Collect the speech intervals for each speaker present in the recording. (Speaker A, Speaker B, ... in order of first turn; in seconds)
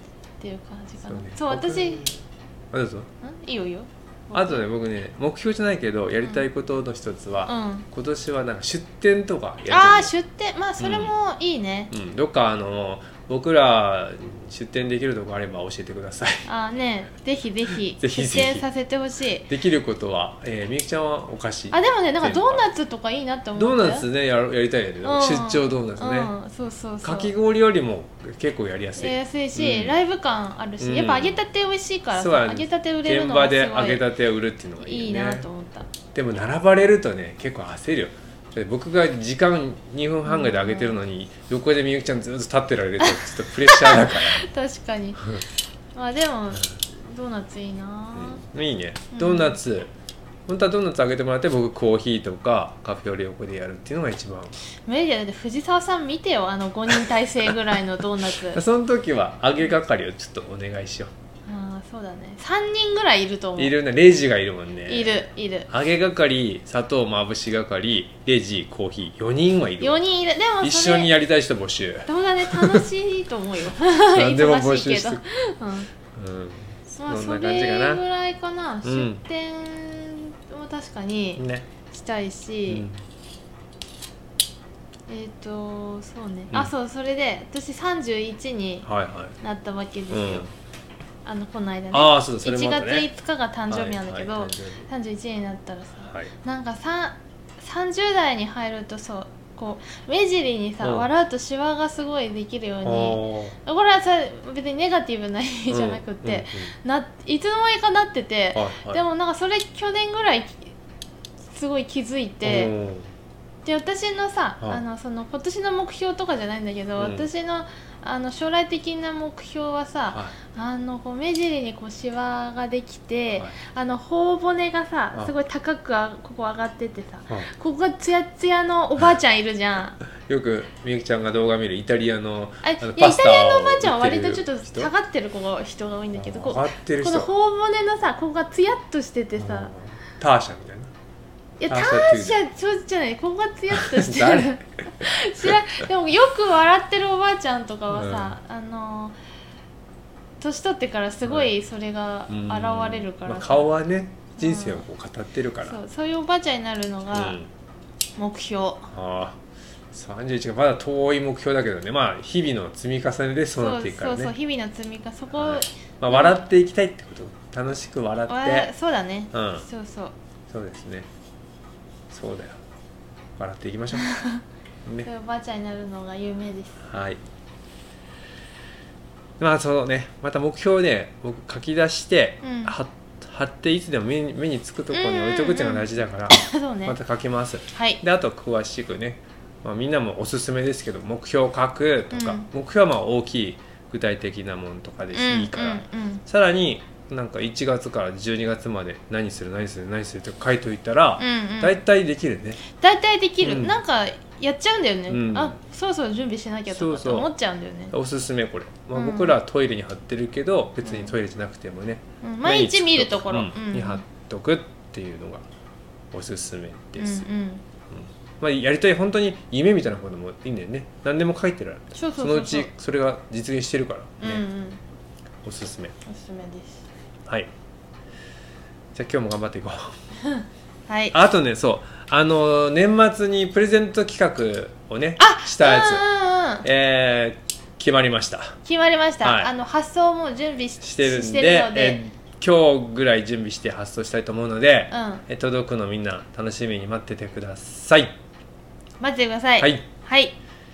Speaker A: 0.4-2.1, 3.2-4.7, 7.5-7.9, 9.7-11.9, 16.4-19.5, 21.7-24.1, 25.0-27.3, 29.0-34.0, 34.8-35.9, 40.2-41.0, 43.0-45.4, 45.9-48.4, 49.1-49.6, 54.9-58.6, 61.5-63.7, 64.9-65.7, 69.8-71.1, 72.0-75.9, 76.9-82.9, 85.1-88.9, 89.4-90.5, 91.2-110.7, 111.5-112.7, 113.6-130.0, 132.6-139.7, 141.6-149.2, 150.4-153.7, 154.4-154.9, 155.6-157.4, 158.2-158.9, 163.6-166.4, 168.3-170.1, 173.9-174.4, 175.0-176.8, 182.4-182.7, 184.9-186.9, 187.7-188.0, 192.1-192.5, 195.1-196.2, 201.2-201.8, 202.6-207.9, 208.9-209.4, 210.8-211.1, 212.2-214.0, 217.0-217.6, 221.9-222.7, 224.2-224.8, 226.0-226.9, 230.2-231.2, 235.2-236.7, 238.6-242.0, 244.9-245.2, 249.0-250.3
Speaker B: 1.0-3.1, 4.3-10.1, 10.8-11.1, 11.9-16.4, 17.9-18.6, 19.5-22.6, 23.6-26.3, 27.0-30.0, 30.8-31.4, 32.1-35.5, 36.1-44.5, 48.1-49.9, 50.5-54.5, 58.4-61.1, 63.6-70.0, 70.6-72.8, 74.1-75.2, 76.1-78.0, 78.8-79.2, 81.4-81.7, 82.7-83.0, 88.8-89.4, 90.1-90.5, 91.9-93.1, 93.7-94.9, 96.1-96.3, 100.8-101.1, 102.8-103.5, 105.7-106.7, 108.5-109.0, 112.4-113.1, 117.0-117.3, 130.2-134.9, 136.1-137.3, 139.3-140.9, 141.7-142.4, 143.7-145.8, 147.9-148.4, 151.2-151.5, 152.3-155.8, 157.1-157.5, 158.9-159.4, 159.9-164.3, 165.3-168.7, 169.3-169.7, 170.5-171.1, 172.1-172.6, 173.4-174.1, 176.8-177.2, 179.4-202.6, 203.4-203.8, 205.1-205.6, 206.7-207.3, 207.9-215.4, 216.1-217.2, 217.9-224.4, 225.4-225.9, 228.9-229.9, 231.1-236.1, 236.6-238.6, 239.2-239.5, 240.8-248.2, 249.6-249.8